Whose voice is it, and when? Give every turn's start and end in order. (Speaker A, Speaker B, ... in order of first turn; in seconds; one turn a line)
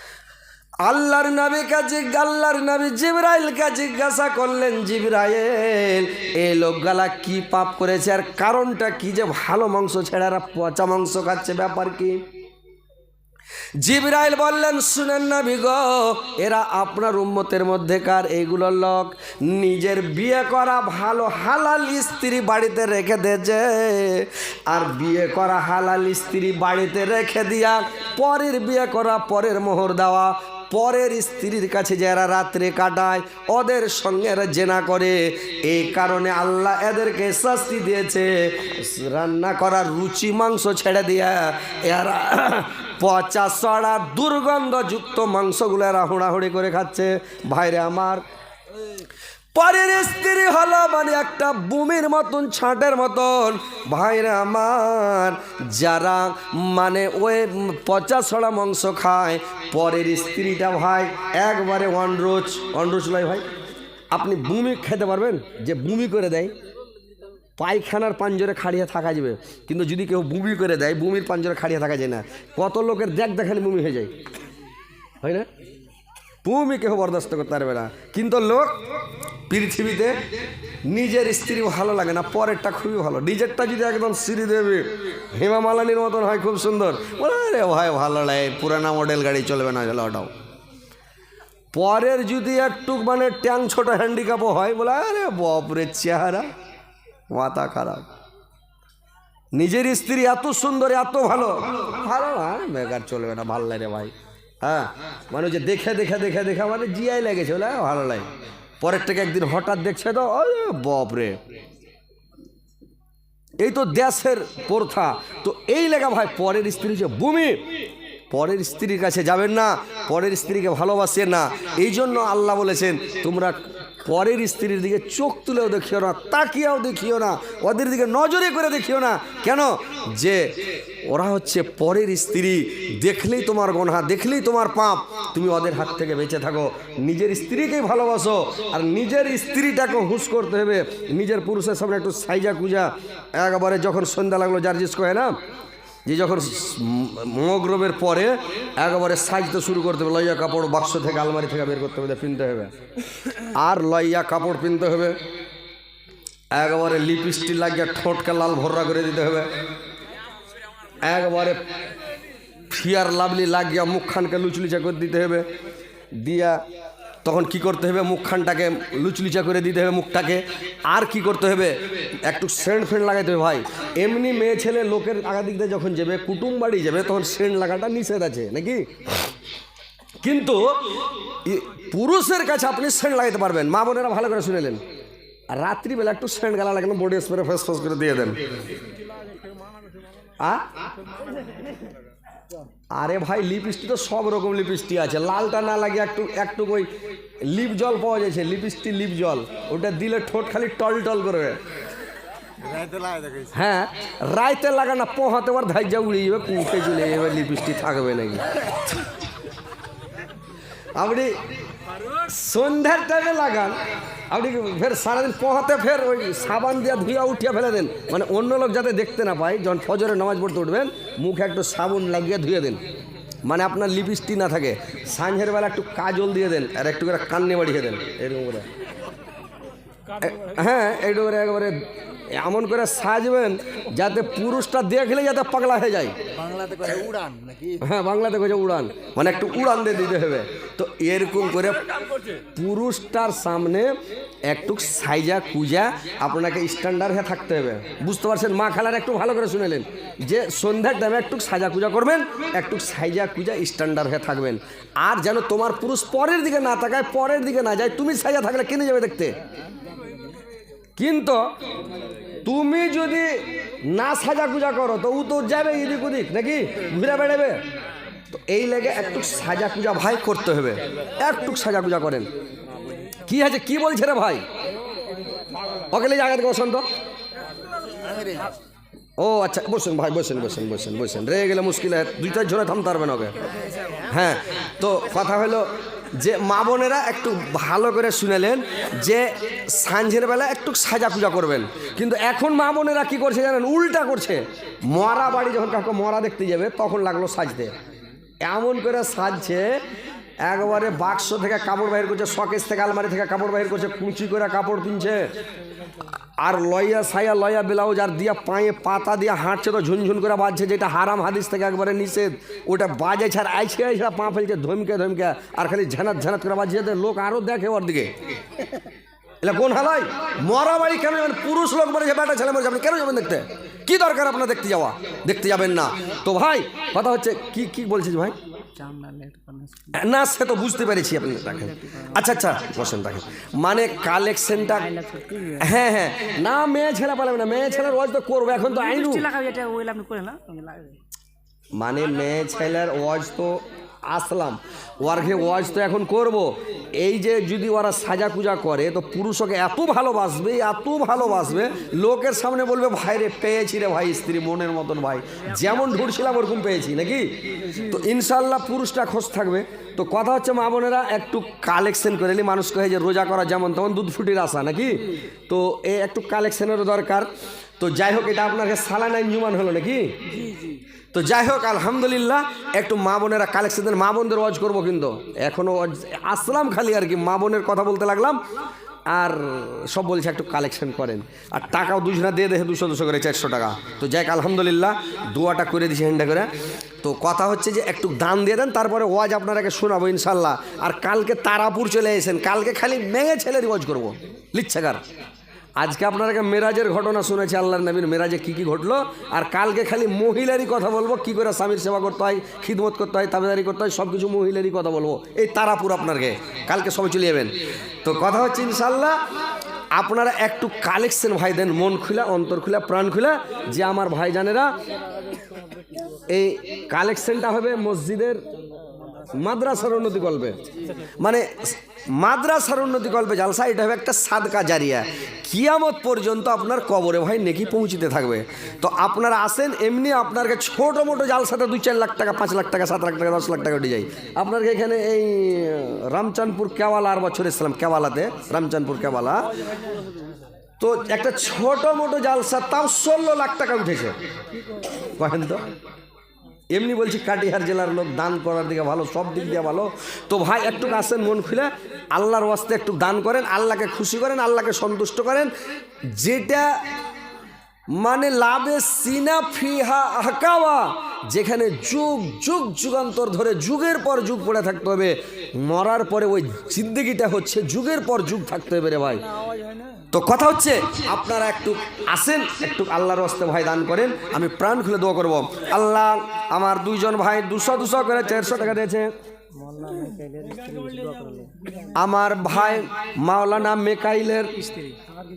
Speaker A: 0.8-12.2
Speaker A: 13.8-48.2
Speaker A: 49.5-63.5
Speaker A: 64.1-66.5
Speaker A: 67.6-74.2
Speaker A: 75.2-75.5
Speaker A: 76.4-78.9
Speaker A: 79.5-80.2
Speaker A: 80.8-90.3
Speaker A: 91.7-96.5
Speaker A: 97.3-98.1
Speaker A: 99.5-108.3
Speaker A: 108.8-111.4
Speaker A: 113.6-117.8
Speaker A: 118.3-145.4
Speaker A: 146.1-152.7
Speaker A: 153.4-155.2
Speaker A: 156.5-159.6
Speaker A: 161.0-161.6
Speaker A: 162.7-165.5
Speaker A: 166.1-166.6
Speaker A: 167.2-179.3
Speaker A: 180.2-184.8
Speaker A: 185.5-188.5
Speaker A: 190.4-190.7
Speaker A: 192.9-201.6
Speaker B: 202.6-203.5
Speaker A: 203.5-208.7
Speaker A: 211.0-211.4
Speaker A: 212.2-213.8
Speaker A: 214.3-222.8
Speaker A: 223.4-228.7
Speaker A: 230.2-236.2
Speaker B: 236.3-237.8
Speaker A: 237.8-241.9
Speaker A: 242.5-259.4
Speaker A: 261.0-261.5
Speaker A: 262.4-267.6
Speaker A: 268.3-272.3
Speaker A: 273.3-274.5
Speaker A: 275.9-276.9
Speaker B: 278.0-278.5
Speaker A: 279.2-283.4
Speaker A: 284.1-297.7
Speaker A: 298.4-299.8
Speaker A: 300.4-305.3
Speaker A: 306.4-318.2
Speaker A: 319.4-328.4
Speaker B: 328.8-330.0
Speaker A: 329.9-334.9
Speaker B: 331.8-332.2
Speaker B: 334.9-335.7
Speaker A: 335.6-339.3
Speaker B: 338.7-341.0
Speaker A: 341.8-370.2
Speaker B: 370.3-370.7
Speaker A: 371.1-378.4
Speaker A: 379.1-395.0
Speaker A: 395.8-409.2
Speaker A: 409.9-414.7
Speaker A: 416.3-418.4
Speaker A: 419.3-420.6
Speaker A: 421.2-439.5
Speaker A: 440.8-444.2
Speaker A: 444.9-445.6
Speaker A: 446.7-455.5
Speaker A: 456.1-456.8
Speaker A: 457.9-469.2
Speaker A: 470.1-479.1
Speaker B: 479.5-481.9
Speaker A: 481.9-484.7
Speaker B: 484.8-485.1